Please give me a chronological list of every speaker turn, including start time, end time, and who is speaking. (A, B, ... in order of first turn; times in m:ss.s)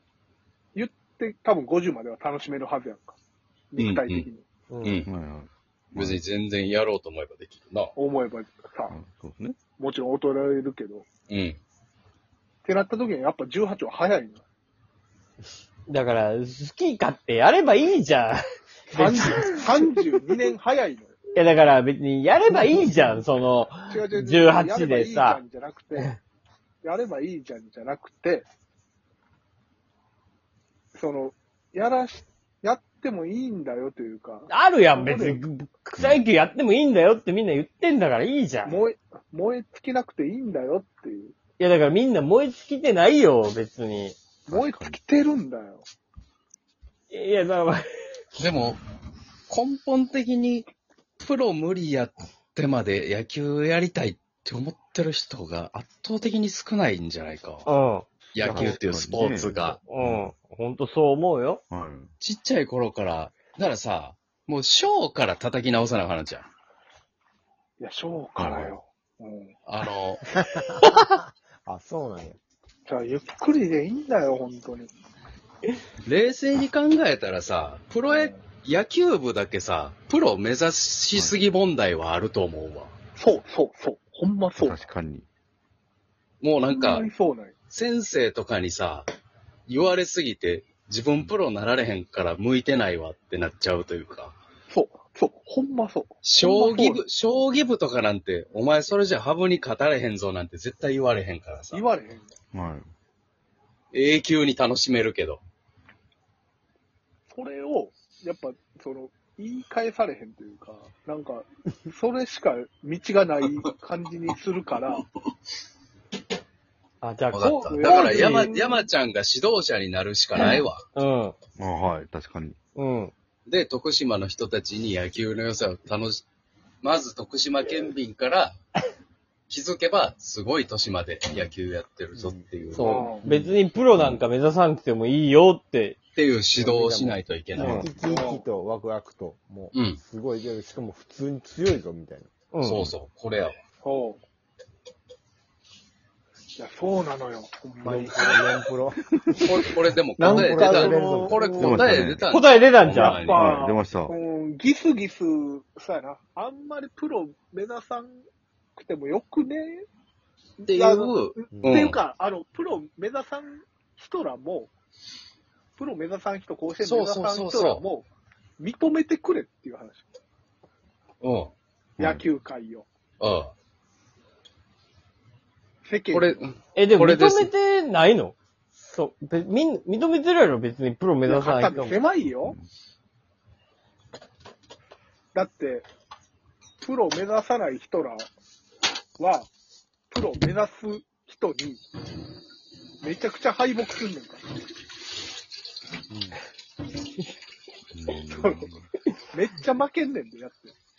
0:00.7-0:03.2 A
0:03.7-0:04.4 A
0:03.8-0:04.3 B
0:04.7-0:05.0 C
0:04.8-0:05.1 B
0:05.0-0:06.2 D
0:05.9-0:07.9 B
0:08.0-0:09.0 A
0:08.9-0:09.6 D
0:09.8-0:11.1 A
0:11.3-0:11.6 B
0:12.6-0:14.4 A
0:15.9-0:19.6 C
0:18.9-0:21.2 A
0:21.3-0:25.4 C
0:23.9-0:26.1 A
0:26.8-0:28.5 A
0:30.9-0:35.4 A
0:34.5-0:38.8 C
0:36.0-0:36.2 D
0:38.6-0:41.3 A
0:41.6-0:44.2 C
0:44.5-0:45.0 D
0:44.5-0:45.8 A
0:47.1-0:47.8 C
0:48.4-0:48.8 B
0:49.5-0:50.7 B
0:51.2-0:57.7 B
0:57.6-1:01.6 C
0:58.3-0:59.8 B
0:58.4-1:00.3 D
1:01.7-1:02.1 D
1:02.2-1:06.5 B
1:07.8-1:09.5 A
1:08.4-1:08.8 D
1:09.6-1:10.2 B
1:11.6-1:12.4 E
1:12.8-1:14.9 A
1:16.0-1:22.9 B
1:18.1-1:18.4 A
1:23.2-1:24.8 A
1:24.6-1:25.3 D
1:26.4-1:27.1 B
1:26.6-1:27.5 A
1:27.7-1:29.1 B
1:29.7-1:34.3 B
1:34.7-1:37.0 A
1:36.2-1:41.8 B
1:41.7-1:42.3 A
1:42.5-1:42.8 D
1:43.9-1:45.4 B
1:47.3-1:55.0 A
1:57.0-1:58.5 C
1:57.3-2:00.8 B
1:57.5-1:58.9 A
2:00.9-2:01.3 C
2:01.6-2:02.6 D
2:02.8-2:03.1 C
2:03.4-2:06.2 B
2:06.8-2:08.5 B
2:09.5-2:13.1 B
2:12.1-2:12.5 E
2:12.7-2:16.0 C
2:12.8-2:13.2 A
2:13.2-2:13.6 E
2:16.1-2:18.0 B
2:16.5-2:22.3 E
2:17.6-2:17.9 C
2:18.0-2:18.4 A
2:19.7-2:20.0 B
2:22.5-2:22.9 C
2:22.6-2:23.5 B
2:23.8-2:24.2 A
2:26.6-2:28.7 A
2:27.8-2:29.6 E
2:29.5-2:33.5 B
2:30.2-2:32.1 A
2:30.2-2:32.1 E
2:31.6-2:32.3 D
2:32.3-2:33.2 C
2:32.9-2:38.2 A
2:33.2-2:34.1 D
2:38.8-2:39.8 A
2:40.6-2:44.7 A
2:40.6-2:42.0 B
2:41.5-2:41.9 E
2:45.8-2:48.1 A
2:46.8-2:47.8 B
2:48.6-2:50.0 A
2:51.2-2:51.5 B
2:52.0-2:52.2 D
2:52.0-2:52.8 A
2:53.2-2:53.5 B
2:55.8-2:56.4 A
2:56.1-2:57.5 B
2:56.7-2:58.3 C
2:58.9-3:01.9 C
3:01.3-3:02.6 A
3:02.4-3:02.6 D
3:05.3-3:05.9 A
3:06.8-3:08.3 A
3:09.2-3:09.5 A
3:10.1-3:11.8 A
3:13.0-3:14.4 A
3:16.1-3:16.4 E
3:17.9-3:18.8 D
3:18.4-3:18.7 A
3:19.3-3:20.7 A